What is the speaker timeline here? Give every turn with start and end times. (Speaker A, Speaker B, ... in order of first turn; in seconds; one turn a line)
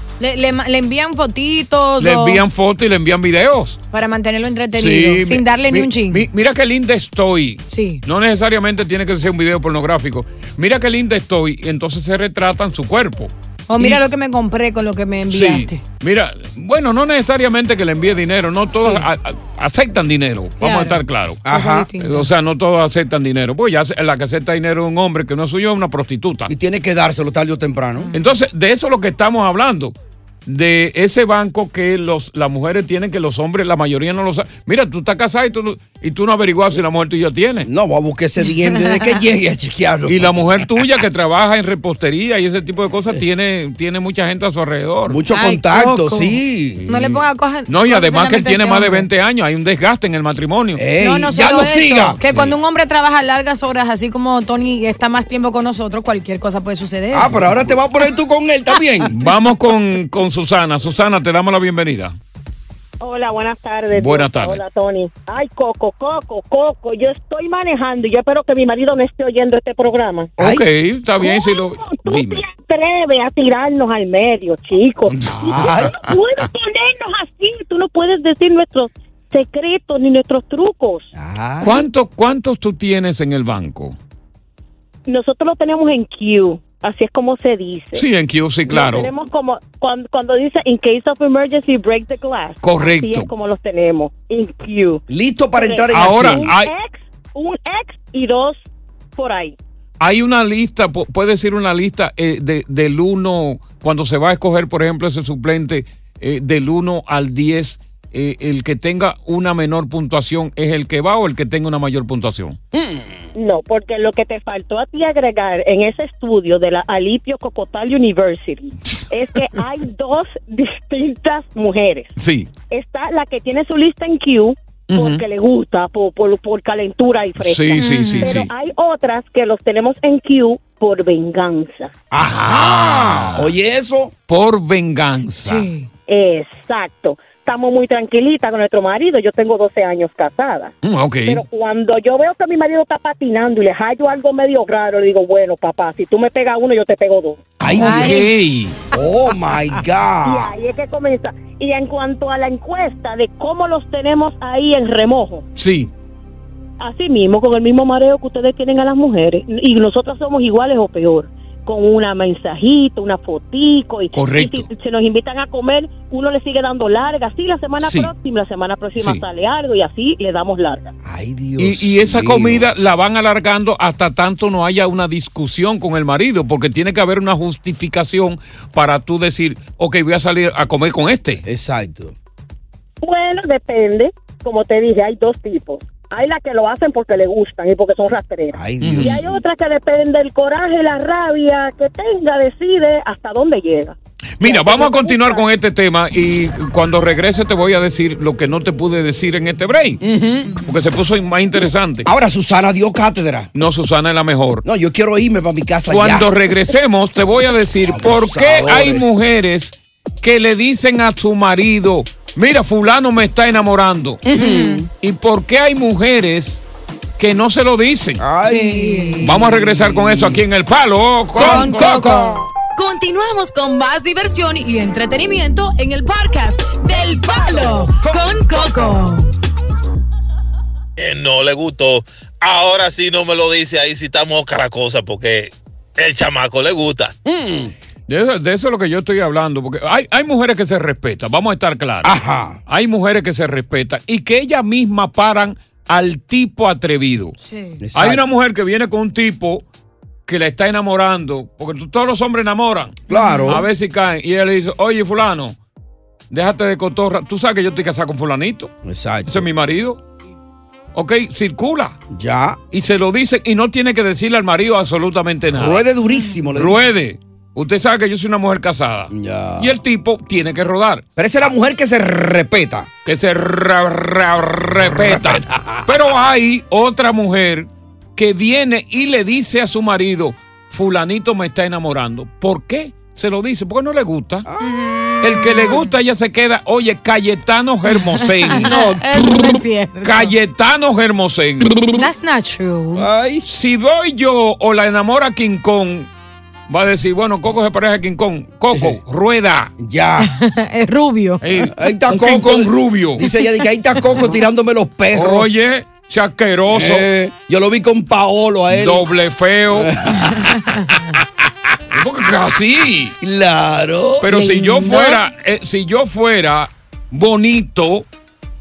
Speaker A: 0.2-2.4
Speaker B: 2.0-3.8
Speaker A: 3.9-6.3
Speaker B: 4.7-14.0
Speaker A: 7.7-8.0
Speaker A: 13.7-15.8
Speaker B: 15.3-21.4
Speaker A: 18.8-19.0
Speaker A: 20.6-22.3
Speaker C: 21.4-21.9
Speaker B: 22.0-26.5
Speaker C: 26.5-28.1
Speaker B: 28.1-29.9
Speaker B: 30.5-37.7
Speaker C: 37.6-40.6
Speaker B: 40.1-45.2
Speaker C: 45.1-46.8
Speaker A: 45.3-49.1
Speaker B: 46.8-50.8
Speaker C: 50.8-52.2
Speaker A: 51.0-57.5
Speaker B: 52.3-52.5
Speaker C: 57.1-59.1
Speaker B: 59.1-62.1
Speaker D: 63.0-70.3
Speaker B: 63.9-64.6
Speaker B: 70.4-72.4
Speaker D: 71.2-81.1
Speaker B: 75.1-76.2
Speaker C: 75.3-76.0
Speaker C: 81.1-81.8
Speaker B: 81.6-84.0
Speaker D: 85.1-88.1
Speaker B: 87.9-89.1
Speaker D: 88.7-95.0
Speaker B: 92.6-93.3
Speaker C: 95.1-96.5
Speaker D: 95.5-98.6
Speaker B: 95.9-96.7
Speaker D: 99.2-99.6
Speaker B: 100.0-112.6
Speaker C: 112.7-113.3
Speaker D: 113.3-122.1
Speaker B: 122.2-122.5
Speaker D: 122.7-131.9
Speaker B: 124.9-125.2
Speaker B: 127.4-128.5
Speaker A: 127.8-128.4
Speaker C: 132.1-134.1
Speaker B: 132.2-133.5
Speaker B: 134.3-135.7
Speaker A: 135.4-135.9
Speaker D: 136.1-147.4
Speaker B: 140.8-141.4
Speaker C: 147.6-148.3
Speaker B: 147.7-148.7
Speaker A: 147.8-148.4
Speaker C: 148.9-150.5
Speaker D: 150.2-155.5
Speaker B: 155.6-155.9
Speaker D: 156.8-170.9
Speaker B: 164.1-164.7
Speaker B: 167.8-168.1
Speaker B: 169.0-169.2
Speaker C: 171.0-172.7
Speaker B: 171.6-181.4
Speaker C: 181.4-182.2
Speaker D: 183.0-195.4
Speaker C: 188.5-189.4
Speaker B: 188.8-189.2
Speaker B: 194.4-200.0
Speaker C: 200.0-200.5
Speaker B: 200.6-202.1
Speaker C: 202.1-203.5
Speaker B: 203.5-204.6
Speaker C: 204.6-206.3
Speaker B: 205.9-214.2
Speaker C: 207.9-209.1
Speaker C: 214.2-214.9
Speaker A: 214.3-214.8
Speaker B: 215.0-216.6
Speaker B: 217.2-218.2
Speaker C: 218.2-220.4
Speaker A: 218.5-219.2
Speaker B: 219.2-222.2
Speaker C: 221.3-222.5
Speaker A: 221.4-222.4
Speaker E: 222.8-229.3
Speaker C: 227.7-228.9
Speaker F: 231.0-237.1
Speaker C: 237.2-237.7
Speaker B: 238.1-247.3
Speaker C: 242.0-242.6
Speaker A: 247.4-247.8
Speaker C: 247.8-248.2
Speaker B: 247.9-249.7
Speaker B: 250.3-255.6
Speaker C: 253.1-253.7
Speaker A: 253.1-253.6
Speaker B: 256.3-258.7
Speaker C: 258.8-259.5
Speaker B: 259.3-260.0
Speaker B: 260.9-262.0
Speaker C: 262.1-262.6
Speaker B: 262.7-265.8
Speaker C: 265.5-266.8
Speaker A: 266.1-266.4
Speaker B: 266.6-271.0
Speaker C: 269.1-269.7
Speaker C: 271.2-272.9
Speaker B: 273.1-284.5
Speaker C: 274.8-275.9
Speaker C: 284.4-285.4
Speaker B: 285.2-291.8
Speaker A: 287.9-290.3
Speaker C: 288.6-288.9
Speaker A: 291.9-293.1
Speaker C: 292.9-293.4
Speaker B: 293.4-296.1
Speaker B: 296.7-299.7
Speaker C: 298.7-299.0
Speaker C: 299.8-300.3
Speaker A: 300.2-301.4
Speaker B: 301.4-303.3
Speaker C: 301.7-305.5
Speaker B: 305.1-307.1
Speaker C: 306.7-309.1
Speaker B: 308.7-309.9
Speaker C: 309.7-310.5
Speaker B: 311.9-313.2
Speaker C: 313.2-314.3
Speaker B: 314.2-318.1
Speaker A: 314.3-315.2